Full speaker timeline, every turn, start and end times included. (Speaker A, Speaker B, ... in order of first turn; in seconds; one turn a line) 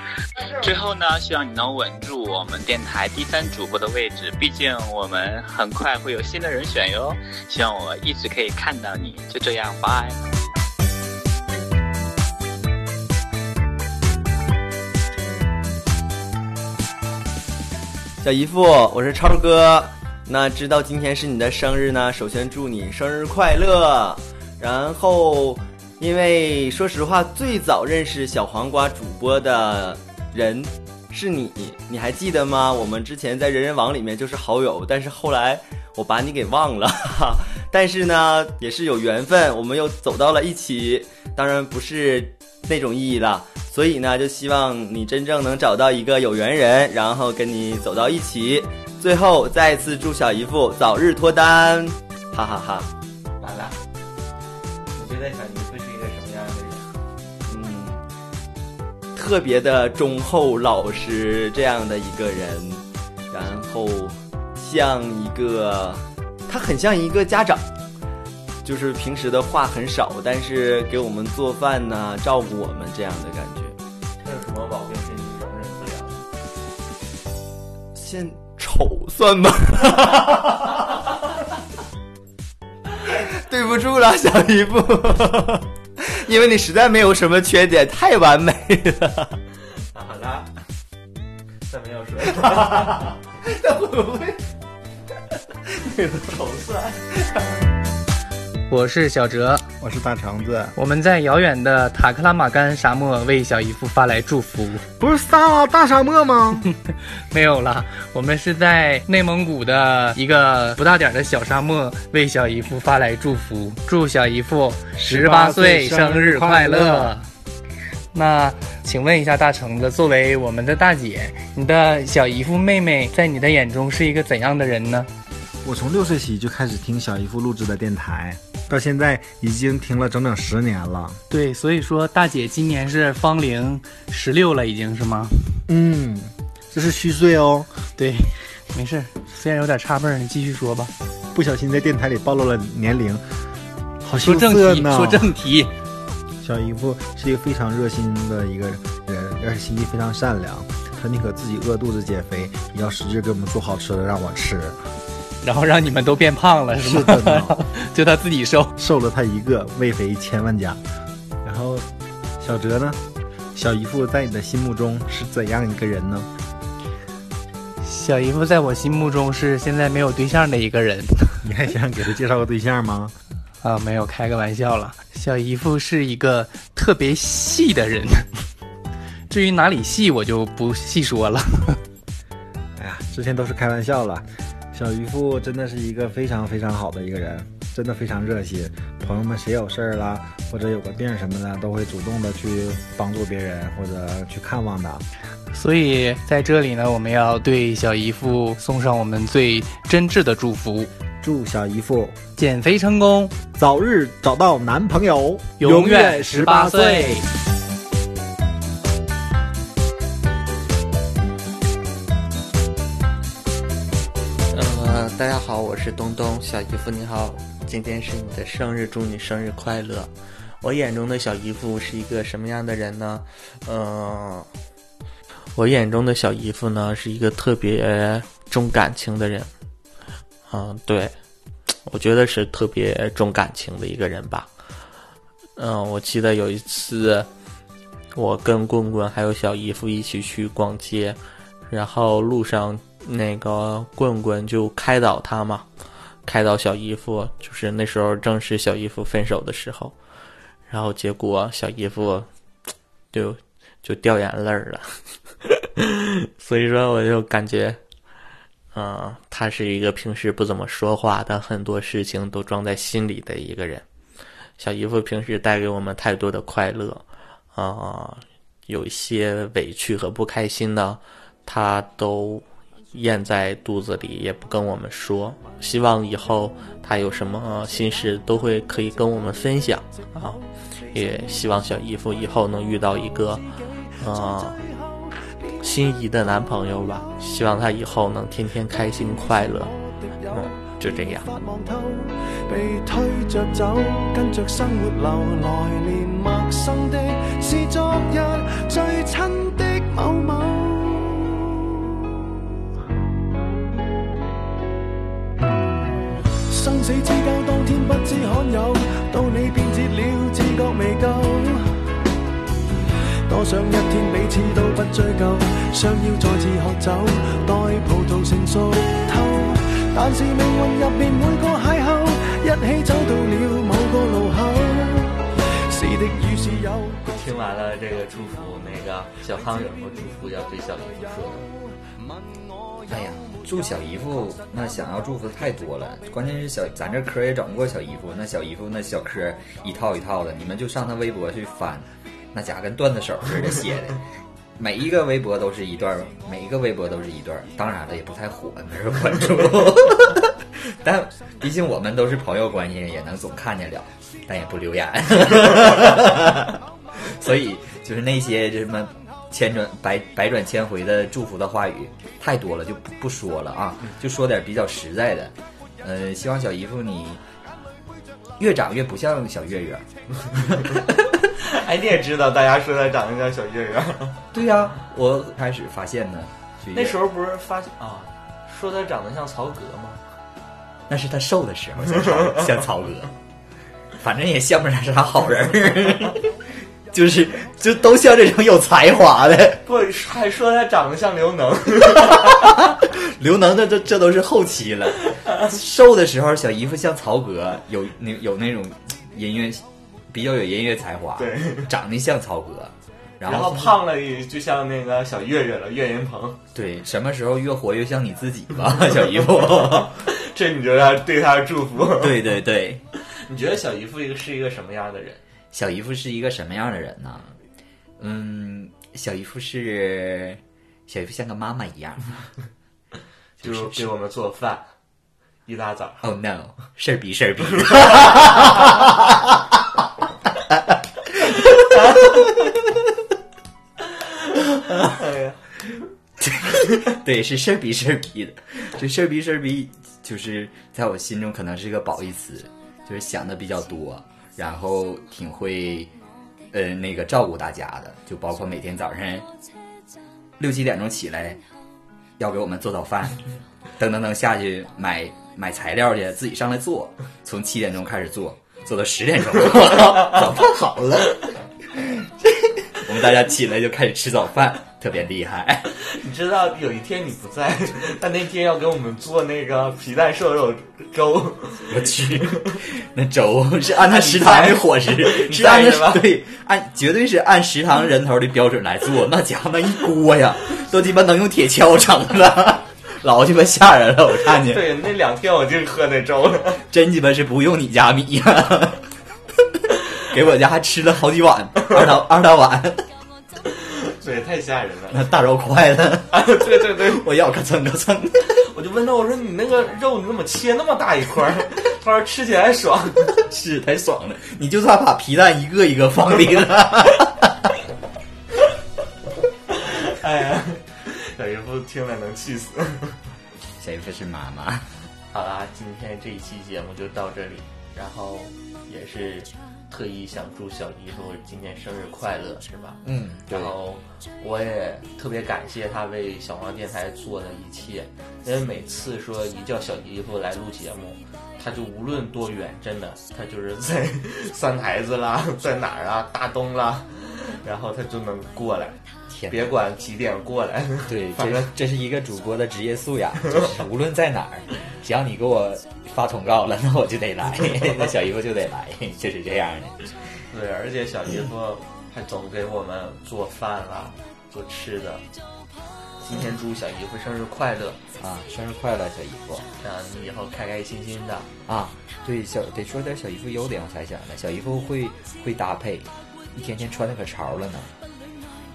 Speaker A: 0.4-10.2
Speaker B: 18.2-52.9
Speaker C: 53.4-53.7
Speaker C: 54.9-56.9
Speaker B: 57.5-58.0
Speaker B: 59.1-67.6
Speaker B: 68.6-73.8
Speaker C: 74.2-76.2
Speaker B: 77.9-80.7
Speaker B: 83.1-89.3
Speaker C: 89.9-90.5
Speaker C: 91.7-93.1
Speaker C: 95.8-97.2
Speaker D: 98.7-99.6
Speaker E: 99.8-100.7
Speaker D: 100.8-104.8
Speaker E: 105.0-106.7
Speaker D: 107.3-117.3
Speaker E: 115.0-117.1
Speaker D: 118.1-125.1
Speaker E: 125.6-131.2
Speaker D: 131.3-135.5
Speaker E: 135.7-137.7
Speaker D: 137.9-140.9
Speaker E: 141.3-143.2
Speaker E: 144.0-145.2
Speaker D: 144.2-145.7
Speaker E: 146.4-154.8
Speaker D: 155.4-158.7
Speaker E: 156.8-157.5
Speaker E: 158.8-160.8
Speaker E: 161.4-161.8
Speaker E: 162.4-163.0
Speaker E: 163.5-166.3
Speaker D: 167.8-171.4
Speaker E: 171.4-173.1
Speaker D: 173.6-178.3
Speaker D: 179.3-181.8
Speaker E: 182.8-195.0
Speaker D: 195.5-200.9
Speaker E: 201.2-202.1
Speaker D: 202.4-203.3
Speaker E: 203.5-207.2
Speaker D: 205.6-207.2
Speaker C: 214.5-224.5
Speaker C: 225.5-229.5
Speaker C: 230.5-231.1
Speaker C: 231.8-234.5
Speaker C: 235.6-237.3
Speaker C: 238.1-245.7
Speaker C: 246.2-249.9
Speaker C: 250.7-252.3
Speaker C: 253.1-254.9
Speaker C: 255.5-257.8
Speaker C: 258.7-263.8
Speaker C: 264.6-283.5
Speaker C: 284.0-284.6
Speaker F: 284.6-285.0
Speaker C: 285.6-289.7
Speaker F: 290.2-302.0
Speaker C: 290.3-291.3
Speaker F: 306.4-311.7
Speaker F: 313.3-327.1
Speaker C: 327.1-331.5
Speaker G: 332.9-344.0
Speaker G: 344.6-367.2
Speaker G: 368.4-369.9
Speaker C: 370.6-374.2
Speaker G: 374.3-377.0
Speaker C: 376.7-380.0
Speaker G: 380.9-383.1
Speaker C: 382.0-382.5
Speaker G: 384.0-386.3
Speaker G: 386.9-389.6
Speaker C: 389.6-392.6
Speaker G: 391.9-403.8
Speaker C: 401.1-401.7
Speaker C: 403.2-406.4
Speaker G: 406.5-410.0
Speaker C: 408.8-412.3
Speaker G: 411.9-412.8
Speaker C: 413.2-415.2
Speaker G: 415.5-417.3
Speaker G: 418.0-422.1
Speaker C: 423.4-424.7
Speaker G: 423.4-423.9
Speaker C: 425.4-426.0
Speaker G: 426.0-429.5
Speaker G: 431.1-432.2
Speaker C: 434.2-435.4
Speaker G: 436.2-445.9
Speaker G: 446.5-449.3
Speaker G: 450.4-451.4
Speaker G: 452.2-453.2
Speaker G: 453.8-461.2
Speaker G: 461.7-465.7
Speaker C: 465.9-472.5
Speaker G: 471.7-484.8
Speaker C: 473.8-476.1
Speaker C: 484.4-486.6
Speaker G: 486.7-488.9
Speaker G: 489.5-492.8
Speaker C: 493.4-495.1
Speaker G: 494.9-498.4
Speaker C: 496.1-497.1
Speaker C: 498.3-503.1
Speaker G: 503.1-507.5
Speaker C: 509.5-513.0
Speaker G: 513.6-514.7
Speaker C: 515.1-538.8
Speaker G: 522.8-523.5
Speaker G: 539.1-539.5
Speaker C: 539.3-541.5
Speaker G: 540.9-549.9
Speaker C: 547.5-547.9
Speaker C: 550.3-555.0
Speaker C: 556.0-557.8
Speaker G: 558.0-559.5
Speaker C: 559.6-561.3
Speaker G: 561.5-567.7